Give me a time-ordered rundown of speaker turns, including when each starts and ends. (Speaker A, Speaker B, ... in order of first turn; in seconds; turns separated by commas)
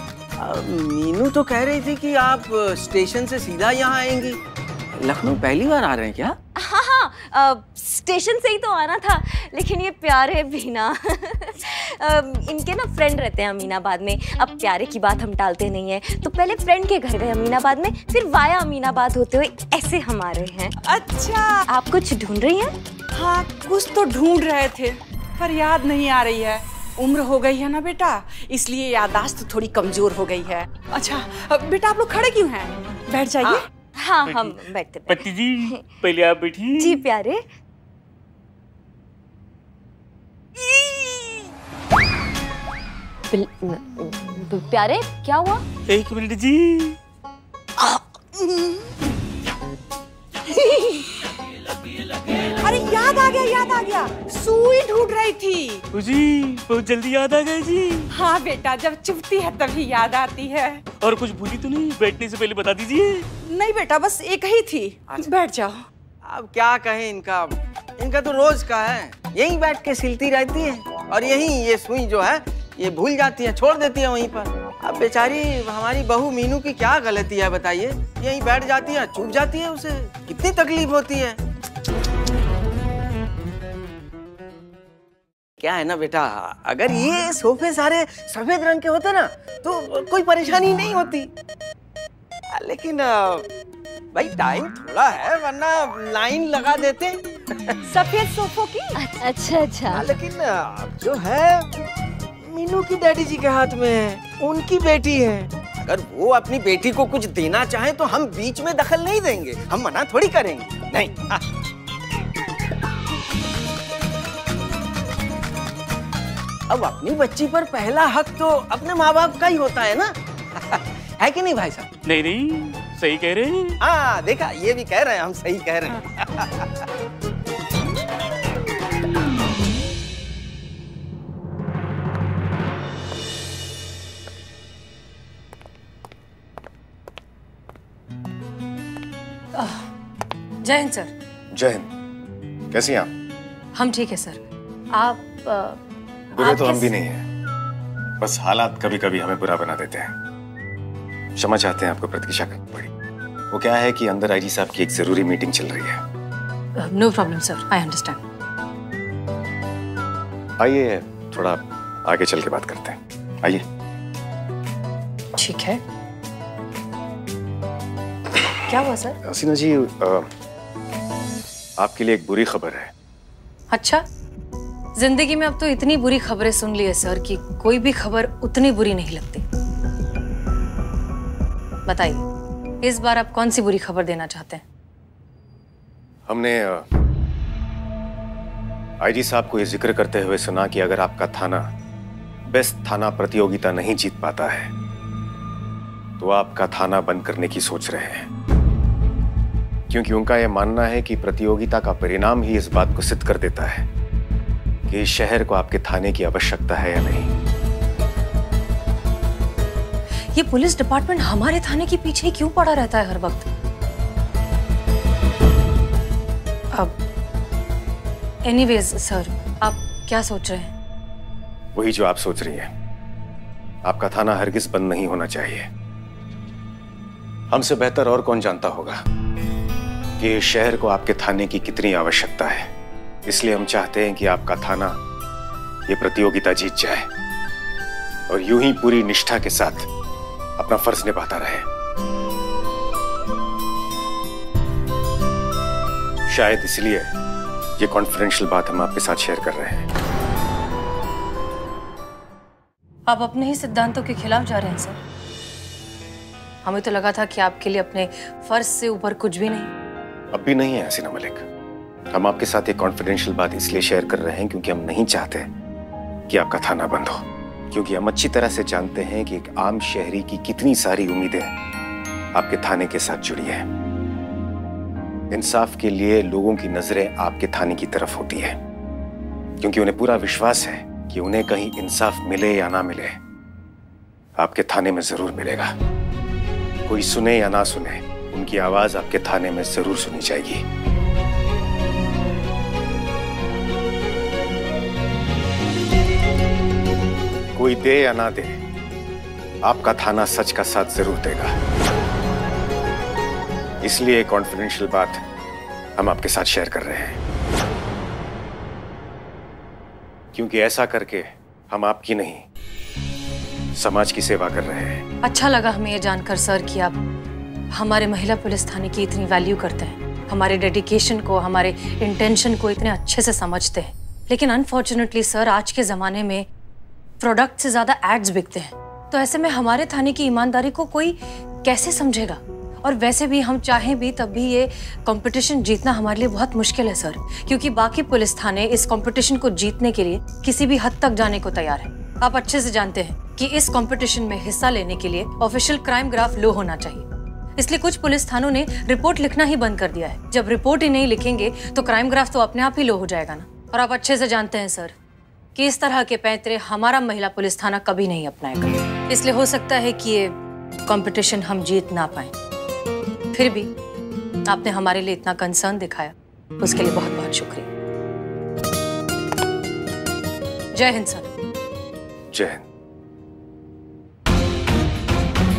Speaker A: 0.4-4.4, Speaker A: 5.0-6.3, Speaker B: 6.6-20.7, Speaker C: 20.9-21.6, Speaker B: 21.7-22.8, Speaker C: 23.1-33.7, Speaker B: 34.0-35.8, Speaker D: 34.2-37.0, Speaker B: 36.8-37.5, Speaker B: 43.3-45.6, Speaker D: 45.9-47.0, Speaker C: 50.6-51.1, Speaker C: 52.5-55.8, Speaker D: 55.9-58.1, Speaker C: 58.1-60.8, Speaker D: 61.0-63.2, Speaker C: 63.4-65.8, Speaker A: 66.2-81.4, Speaker A: 85.6-91.3, Speaker A: 92.5-93.5, Speaker A: 94.1-97.2, Speaker C: 97.9-98.9, Speaker B: 99.0-100.0, Speaker A: 99.9-101.7, Speaker A: 102.4-111.4, Speaker A: 116.7-121.9, Speaker D: 122.0-123.8, Speaker A: 123.8-126.9, Speaker E: 139.5-139.8, Speaker E: 140.6-141.1, Speaker F: 141.5-141.9, Speaker F: 142.7-143.1, Speaker E: 143.7-144.4, Speaker E: 144.9-145.8, Speaker F: 146.3-147.2, Speaker E: 146.4-146.9, Speaker F: 148.2-150.1, Speaker F: 151.4-152.9, Speaker F: 153.5-156.0, Speaker E: 156.8-158.2, Speaker F: 160.6-163.6, Speaker E: 165.3-165.8, Speaker E: 168.7-169.2, Speaker F: 169.2-170.3, Speaker F: 171.8-172.9, Speaker E: 173.7-174.0, Speaker E: 174.9-179.4, Speaker E: 181.8-182.2, Speaker E: 182.8-184.6, Speaker F: 186.3-186.8, Speaker F: 189.0-191.7, Speaker F: 192.5-194.7, Speaker F: 196.2-198.3, Speaker F: 199.9-203.9, Speaker F: 204.9-207.3, Speaker E: 210.3-213.5, Speaker E: 218.4-220.7, Speaker F: 221.7-222.7, Speaker F: 223.8-225.7, Speaker F: 227.5-229.0, Speaker F: 230.2-232.7, Speaker F: 233.3-235.0, Speaker F: 235.9-237.1, Speaker F: 238.3-239.9, Speaker F: 240.6-241.7, Speaker F: 246.3-247.1, Speaker F: 247.8-249.9, Speaker E: 253.1-255.0, Speaker E: 256.6-259.7, Speaker F: 260.3-261.4, Speaker F: 262.1-265.5, Speaker F: 266.3-271.5, Speaker F: 272.3-273.7, Speaker F: 275.3-278.6, Speaker F: 279.6-283.1, Speaker F: 284.4-285.7, Speaker F: 286.9-290.6, Speaker F: 297.5-298.6, Speaker F: 299.6-301.5, Speaker F: 303.8-305.2, Speaker F: 306.0-307.2, Speaker F: 310.3-312.4, Speaker F: 313.7-315.0, Speaker E: 315.2-317.0, Speaker E: 317.7-326.4, Speaker E: 327.2-354.9, Speaker E: 355.6-360.3, Speaker E: 360.9-362.3, Speaker E: 363.3-363.7, Speaker E: 364.5-367.7, Speaker E: 370.7-371.3, Speaker F: 372.3-372.6